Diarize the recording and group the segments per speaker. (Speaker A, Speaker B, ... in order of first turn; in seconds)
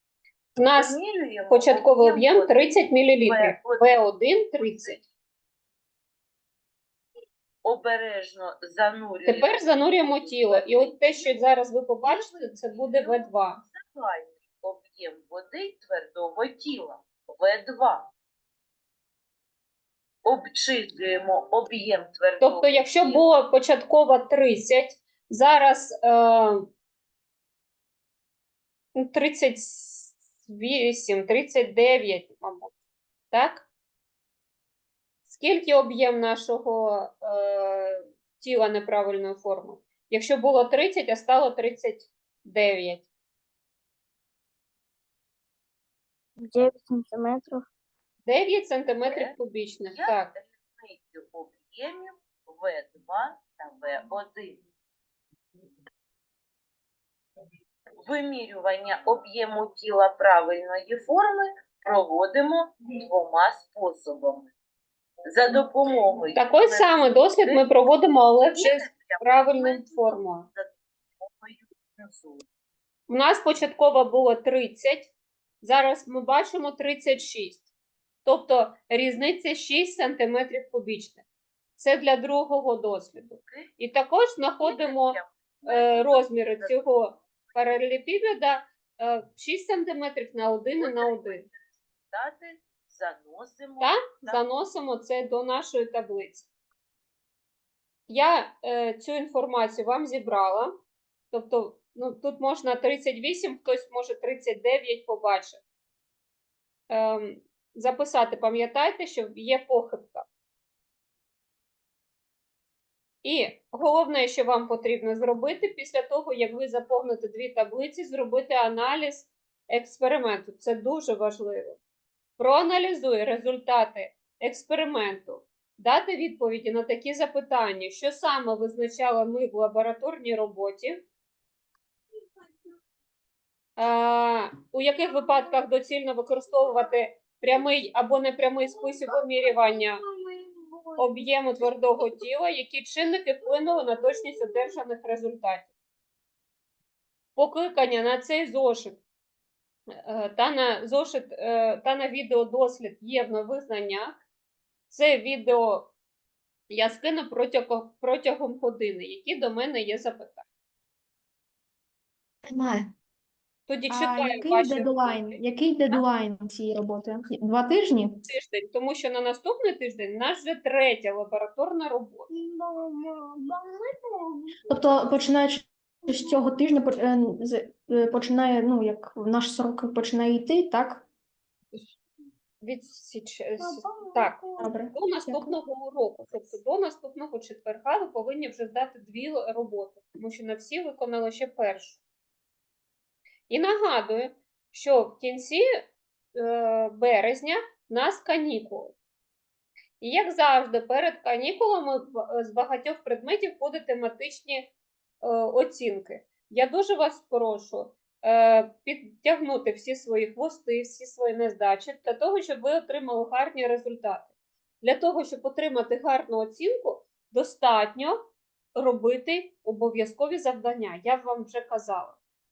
Speaker A: 0.6-1.0, 1.5-5.0, 9.3-13.6, 22.4-26.6, 29.0-32.7, 33.3-33.7, 35.2-43.1, 48.2-50.3, 66.3-70.5, 73.1-75.1, 75.6-77.7, 78.2-81.2, 81.8-91.4, 93.8-96.5, 98.1-100.7, 101.3-105.6, 106.9-110.3, 113.2-121.8, 122.4-131.0, 133.8-140.0, 141.0-145.7, 147.4-149.0, 150.0-154.2, 154.9-155.9, 156.7-160.5, 163.7-166.0, 168.2-172.3, 182.6-192.0, 193.5-195.6, 196.3-198.9, 200.0-204.7, 205.2-218.2, 218.8-222.2
Speaker B: 0.8-3.9, 7.6-11.4, 12.0-18.1, 20.2-23.2, 49.1-49.3, 49.9-54.6, 58.0-64.5, 65.3-67.6, 68.6-72.5, 83.4-83.7, 84.6-87.5, 90.8-94.4
Speaker C: 46.4-47.6, 172.5-173.6
Speaker D: 162.5-162.9, 163.9-168.2, 174.7-181.1, 184.6-185.5